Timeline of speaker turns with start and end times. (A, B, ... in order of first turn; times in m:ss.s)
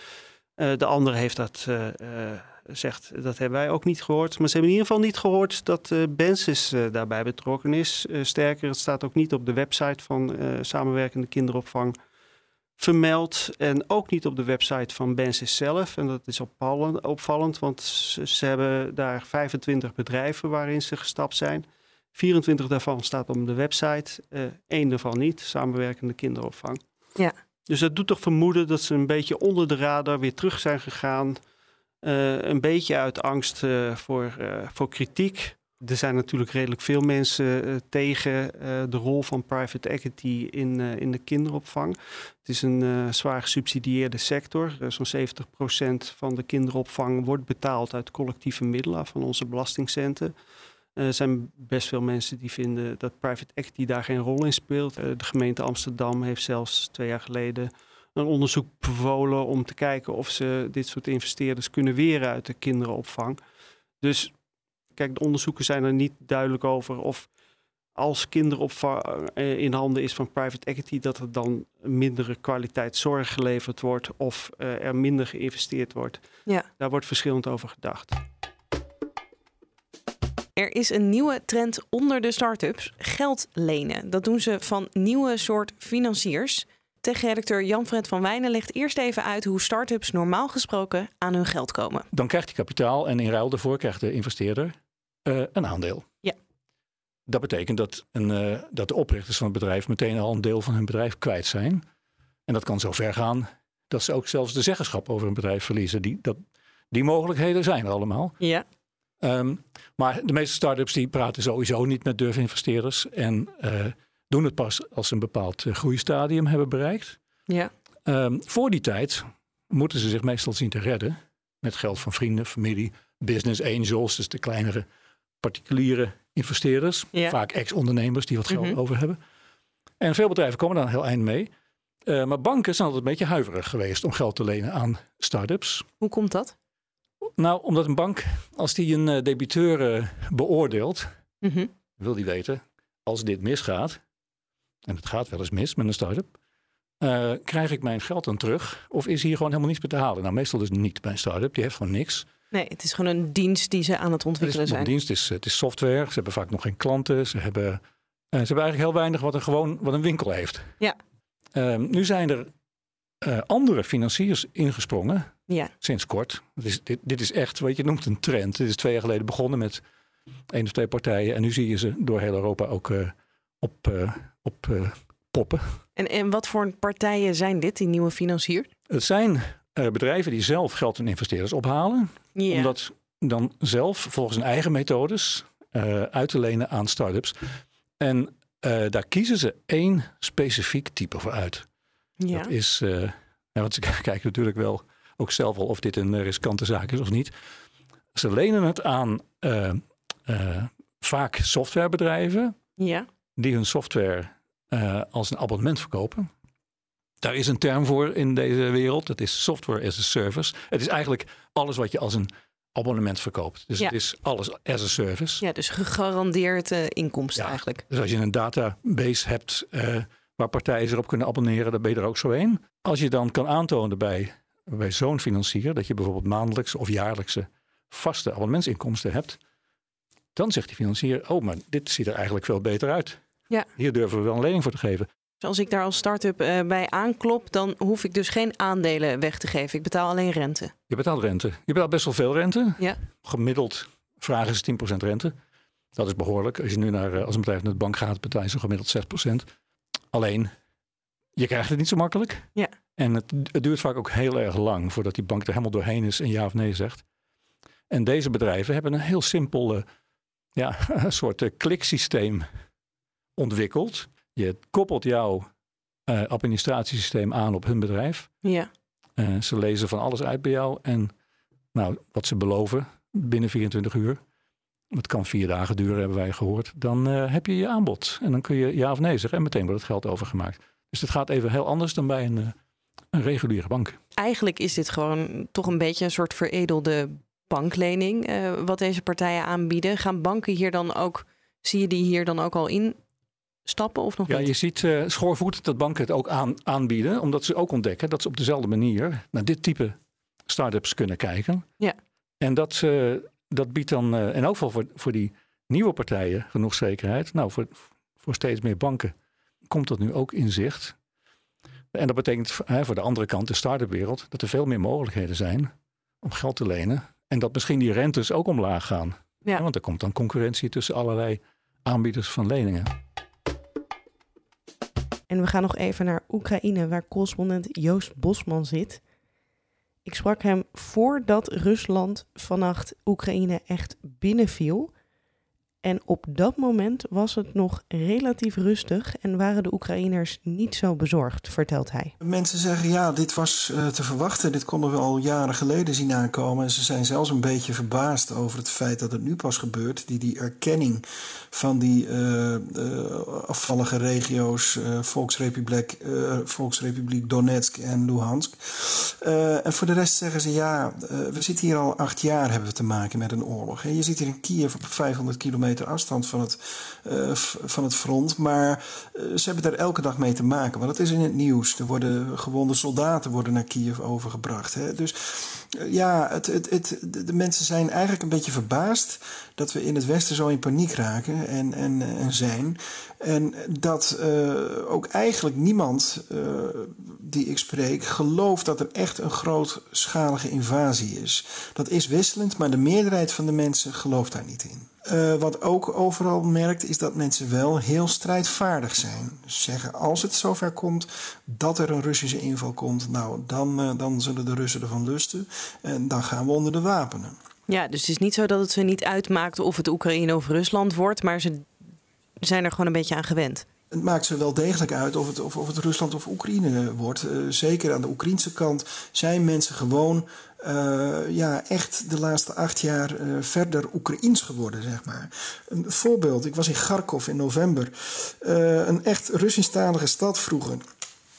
0:00.6-0:12.0 A
0:12.8-0:26.8 A
0:27.7-0:31.4 A
0:32.0-0:50.3 A
0:51.0-1:03.4 A
1:04.0-1:04.3 A
1:04.9-1:07.3 A
1:08.0-1:16.2 A
1:16.8-1:18.2 A
1:20.6-1:32.1 B
1:32.1-1:36.0 C
1:37.3-1:41.8 C
1:42.5-1:46.4 C
1:46.9-1:48.4 C
1:48.4-1:48.6 B
1:49.2-1:57.2 C
1:58.1-2:04.8 C
2:05.4-2:09.2 C
2:08.5-2:08.8 B
2:10.0-2:11.5 C
2:12.1-2:15.9 C
2:16.0-2:16.5 B
2:17.4-2:21.1 C
2:21.4-2:21.7 B
2:22.0-2:24.0 C
2:24.8-2:26.3 C
2:27.0-2:32.3 C
2:32.5-2:34.9 B
2:34.4-2:37.8 C
2:38.3-2:40.7 C
2:41.5-2:42.5 C
2:43.2-2:49.8 C
2:50.5-2:55.8 C
2:56.0-2:58.7 B
2:58.9-3:07.3 C
3:02.3-3:02.7 B
3:08.0-3:11.6 C
3:12.2-3:12.5 B
3:12.3-3:17.3 C
3:18.1-3:22.5 C
3:22.8-3:23.1 B
3:23.4-3:26.3 C
3:27.2-3:35.4 C
3:35.4-3:37.8 B
3:37.4-3:49.4 C
3:50.3-3:53.2 C
3:53.8-3:55.1 C
3:55.4-4:00.7 B
4:00.9-4:05.3 C
4:06.0-4:09.4 C
4:10.1-4:10.5 C
4:11.4-4:17.0 C
4:17.9-4:19.8 C
4:20.6-4:22.4 C
4:23.4-4:25.4 C
4:26.1-4:28.3 C
4:28.4-4:28.7 B
4:29.2-4:31.1 C
4:31.7-4:34.2 C
4:34.9-4:42.5 C
4:43.1-4:44.0 C
4:44.2-4:53.0 B
4:53.6-4:54.5 B
4:54.3-4:59.9 C
5:00.5-5:01.6 C
5:02.4-5:09.1 C
5:09.7-5:10.9 C
5:11.9-5:15.7 C
5:16.2-5:22.9 C
5:25.3-5:29.0 B
5:30.0-5:34.9 B
5:35.8-5:42.1 B
5:42.2-6:47.4 D
6:47.7-6:51.6 B
6:52.4-6:53.6 B
6:53.9-7:10.8 D